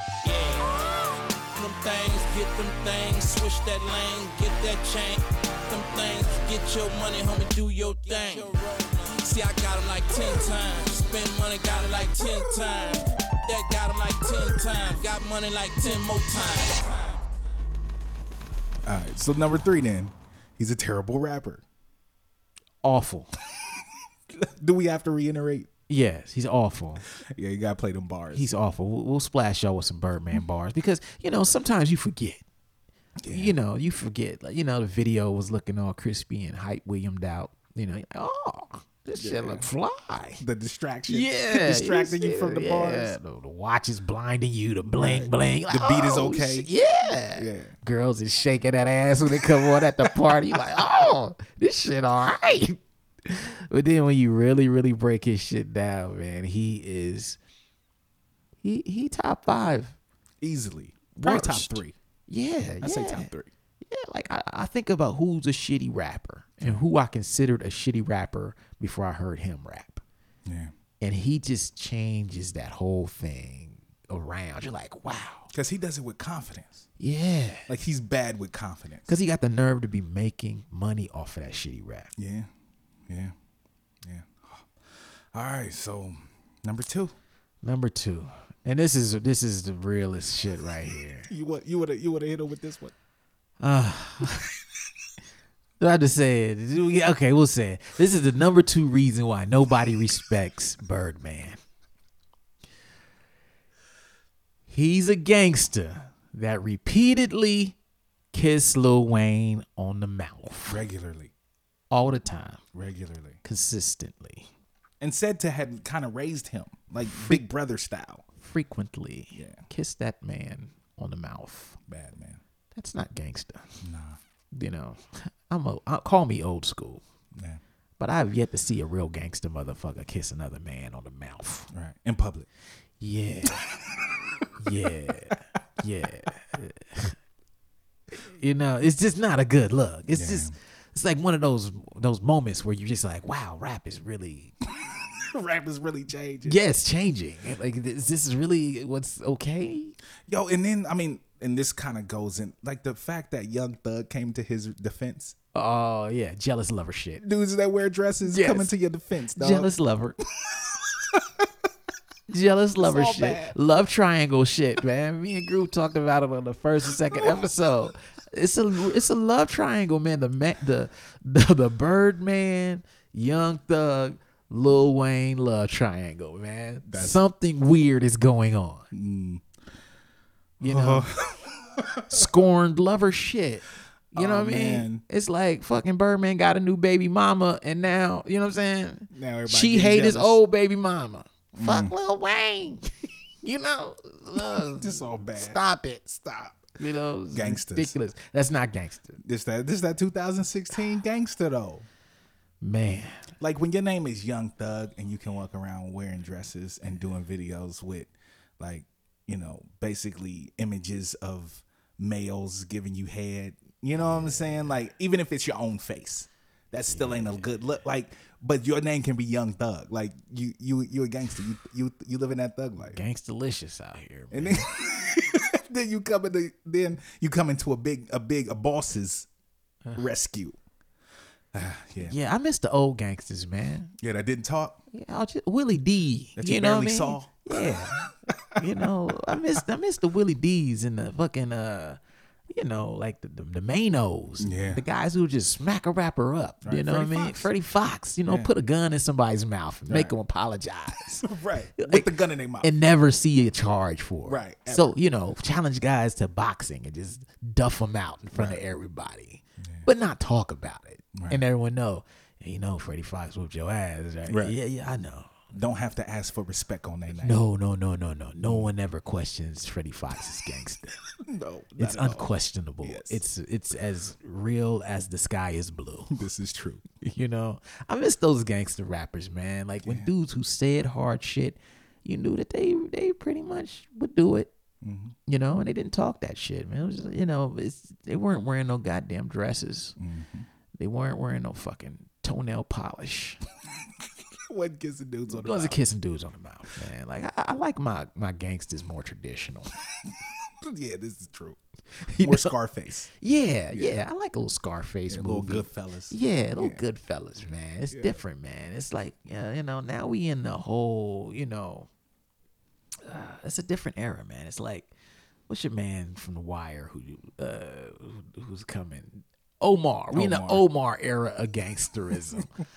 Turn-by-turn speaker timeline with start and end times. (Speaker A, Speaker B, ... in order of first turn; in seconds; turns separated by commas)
Speaker A: 0.2-17.1, Speaker B: 18.8-21.6, Speaker C: 22.8-23.3, Speaker B: 24.3-25.7, Speaker C: 25.9-27.0, Speaker B: 27.2-28.5, Speaker C: 28.3-32.4, Speaker B: 33.2-33.5, Speaker C: 33.3-40.4, Speaker B: 39.1-39.7, Speaker B: 40.4-43.1, Speaker C: 41.1-57.4, Speaker B: 44.9-46.7, Speaker B: 47.3-47.7, Speaker B: 49.4-50.5, Speaker C: 58.6-59.9, Speaker B: 60.4-62.0, Speaker C: 61.2-63.3, Speaker B: 62.8-63.5, Speaker C: 63.8-70.0, Speaker B: 70.5-70.7, Speaker C: 71.0-75.5, Speaker B: 75.5-76.9, Speaker C: 77.0-77.7, Speaker B: 77.7-79.1, Speaker C: 79.1-82.1, Speaker B: 82.2-82.5, Speaker B: 83.1-83.3, Speaker B: 84.0-84.7, Speaker B: 85.3-87.1, Speaker C: 87.6-91.3, Speaker B: 91.3-92.9, Speaker C: 93.6-94.5, Speaker C: 95.8-101.6, Speaker C: 104.7-107.8, Speaker C: 108.3-110.8, Speaker B: 110.7-111.3, Speaker C: 111.9-112.6, Speaker B: 112.7-113.4, Speaker C: 113.4-114.5, Speaker B: 115.0-118.2, Speaker C: 117.0-117.4, Speaker C: 118.4-121.8, Speaker B: 119.3-119.6, Speaker B: 121.9-122.4, Speaker C: 122.7-123.8, Speaker B: 123.8-124.2, Speaker C: 124.5-127.0, Speaker B: 127.3-127.6, Speaker C: 128.0-131.7, Speaker B: 131.7-132.5, Speaker C: 133.0-133.6, Speaker C: 134.6-137.1, Speaker C: 138.2-144.5, Speaker B: 140.1-140.6, Speaker B: 145.2-146.6, Speaker C: 146.4-149.9, Speaker B: 150.3-155.3, Speaker C: 155.5-157.2, Speaker B: 157.2-159.7, Speaker C: 158.2-158.7, Speaker C: 159.3-160.2, Speaker B: 161.1-161.4, Speaker C: 162.3-178.9, Speaker B: 162.8-163.6, Speaker B: 176.9-177.2, Speaker B: 178.9-179.4, Speaker B: 180.6-182.3, Speaker C: 180.6-181.1, Speaker C: 182.1-196.1, Speaker B: 184.1-185.0, Speaker B: 189.1-190.4, Speaker B: 191.5-191.9, Speaker B: 194.7-196.6, Speaker C: 196.8-199.2, Speaker B: 197.3-197.9, Speaker B: 199.2-201.8, Speaker C: 202.6-203.2, Speaker B: 203.4-223.0, Speaker C: 214.0-214.7, Speaker C: 216.9-217.4, Speaker C: 222.9-224.7, Speaker B: 224.3-229.3, Speaker B: 229.9-230.6, Speaker B: 231.5-232.1, Speaker C: 232.0-233.9, Speaker B: 234.0-234.8, Speaker C: 234.9-238.1, Speaker B: 236.3-238.6, Speaker C: 238.6-242.0, Speaker C: 242.5-252.1, Speaker B: 244.4-244.8, Speaker B: 246.6-247.5, Speaker B: 249.9-250.1, Speaker B: 251.2-252.7, Speaker C: 252.6-265.5, Speaker B: 254.2-254.9, Speaker B: 258.3-258.6, Speaker B: 259.6-259.9, Speaker B: 261.1-261.4, Speaker B: 264.3-264.6, Speaker B: 265.5-267.4, Speaker C: 267.2-271.0, Speaker B: 268.4-268.7, Speaker B: 271.2-272.3, Speaker C: 271.8-276.2, Speaker B: 272.8-273.2, Speaker B: 276.1-276.8, Speaker C: 277.0-284.5, Speaker B: 284.8-285.1, Speaker C: 285.3-290.0, Speaker B: 290.0-290.5, Speaker C: 290.8-293.4, Speaker B: 294.4-295.8, Speaker C: 295.3-299.7, Speaker B: 300.6-301.6, Speaker C: 302.0-302.5, Speaker B: 302.2-303.1, Speaker C: 303.2-311.9, Speaker B: 303.7-304.0, Speaker B: 305.1-306.8, Speaker B: 307.9-308.2, Speaker C: 313.1-314.9, Speaker C: 315.5-322.5, Speaker B: 320.1-320.6